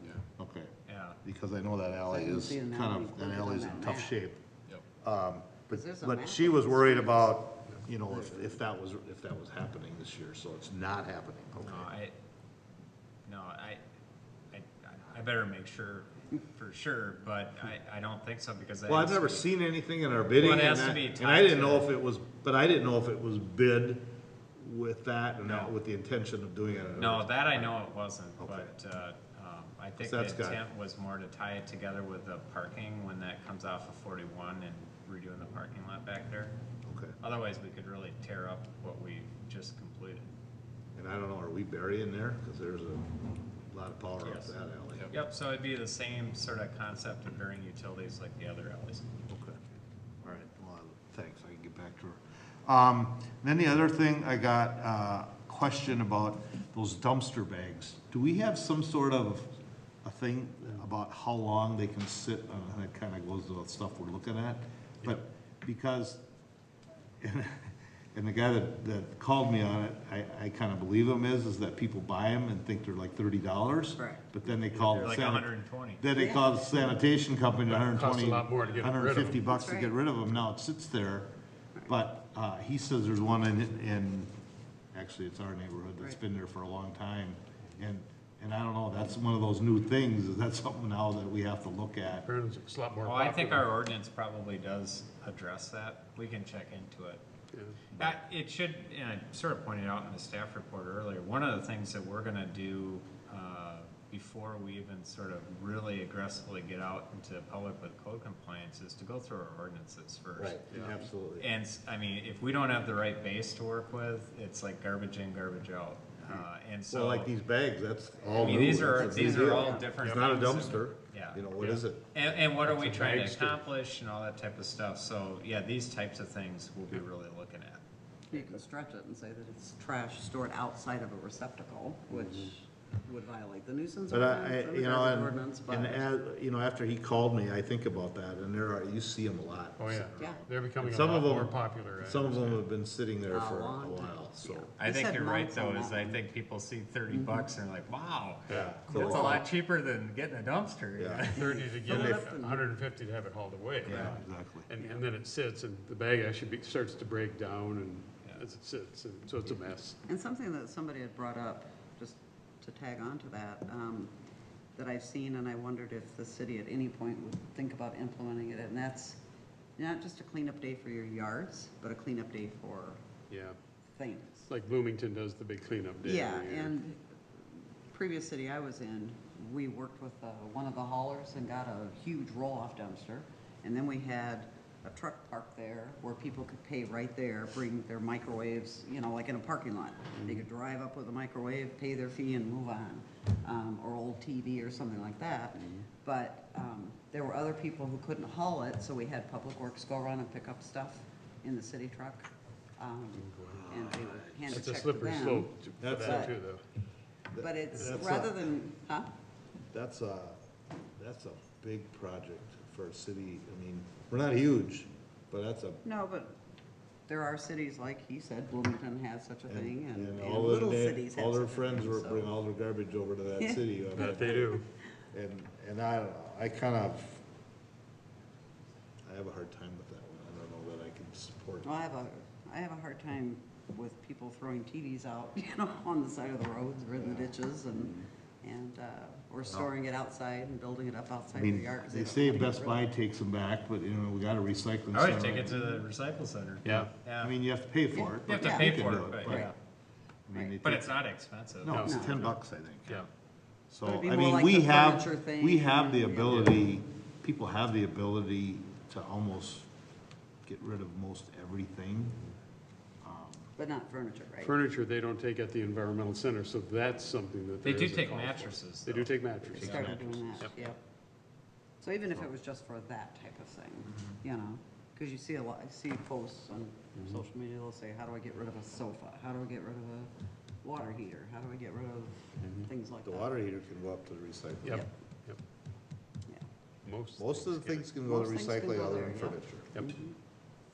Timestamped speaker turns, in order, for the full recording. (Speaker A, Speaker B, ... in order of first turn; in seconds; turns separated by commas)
Speaker A: 0.4-11.9, Speaker B: 0.9-1.2, Speaker C: 2.1-4.2, Speaker C: 5.7-7.4, Speaker C: 8.1-8.5, Speaker B: 11.6-12.1, Speaker B: 13.3-13.8, Speaker B: 14.5-19.5, Speaker A: 18.9-27.8, Speaker B: 20.4-21.9, Speaker B: 25.4-25.7, Speaker B: 27.0-36.5, Speaker A: 28.4-28.7, Speaker A: 30.0-30.6, Speaker A: 36.9-37.2, Speaker B: 37.2-40.3, Speaker A: 41.0-45.1, Speaker B: 44.2-44.5, Speaker B: 45.1-49.0, Speaker A: 49.3-49.6, Speaker A: 50.2-59.5, Speaker A: 60.0-66.2, Speaker A: 67.2-81.3, Speaker C: 74.0-74.2, Speaker B: 74.6-76.1, Speaker C: 76.2-76.5, Speaker D: 77.7-79.4, Speaker C: 79.4-79.9, Speaker A: 81.9-84.3, Speaker A: 84.9-92.3, Speaker D: 92.3-93.7, Speaker B: 93.0-97.2, Speaker D: 97.5-97.8, Speaker B: 98.0-110.8, Speaker A: 110.4-111.5, Speaker D: 110.7-111.0, Speaker B: 111.4-117.3, Speaker A: 116.2-122.1, Speaker C: 118.3-119.9, Speaker B: 118.4-121.4, Speaker B: 122.0-127.8, Speaker D: 122.7-123.6, Speaker C: 128.3-136.0, Speaker A: 134.1-144.7, Speaker D: 139.8-142.6, Speaker C: 143.3-146.2, Speaker B: 144.8-152.4, Speaker C: 147.1-147.5, Speaker D: 148.5-149.4, Speaker A: 148.5-149.4, Speaker A: 151.0-151.3, Speaker C: 151.3-152.7, Speaker D: 151.3-160.0, Speaker A: 153.9-154.7, Speaker B: 153.9-154.2, Speaker C: 160.1-164.1, Speaker C: 164.8-169.2, Speaker C: 169.8-173.0, Speaker D: 173.3-173.6, Speaker C: 173.9-174.5, Speaker D: 174.5-176.8, Speaker C: 176.0-177.1, Speaker C: 177.9-206.3, Speaker D: 203.3-203.7, Speaker A: 203.5-204.6, Speaker D: 204.5-206.6, Speaker A: 205.8-206.3, Speaker A: 207.3-208.4, Speaker C: 207.4-209.1, Speaker A: 209.7-210.4, Speaker A: 211.0-215.8, Speaker C: 215.8-216.4, Speaker C: 217.1-222.3, Speaker A: 219.5-227.2, Speaker C: 223.4-224.4, Speaker D: 224.0-224.7, Speaker A: 229.1-231.7, Speaker C: 231.6-242.8, Speaker A: 237.0-237.3, Speaker A: 241.4-245.6, Speaker B: 244.9-247.3, Speaker D: 246.7-246.9, Speaker A: 247.2-249.5, Speaker C: 247.9-249.5, Speaker B: 248.2-249.6, Speaker A: 250.3-251.0, Speaker B: 250.6-252.0, Speaker A: 251.6-253.1, Speaker D: 251.7-252.0, Speaker C: 251.8-252.3, Speaker A: 253.7-259.7, Speaker C: 253.8-256.5, Speaker D: 256.3-256.5, Speaker A: 260.5-262.2, Speaker A: 263.0-263.5, Speaker C: 263.6-264.6, Speaker D: 264.4-269.8, Speaker B: 267.6-269.9, Speaker A: 269.5-270.8, Speaker C: 269.6-270.8, Speaker C: 271.8-280.1, Speaker C: 280.6-283.3, Speaker A: 283.0-284.9, Speaker D: 284.6-285.4, Speaker D: 286.9-287.8, Speaker A: 287.2-289.9, Speaker C: 288.0-290.1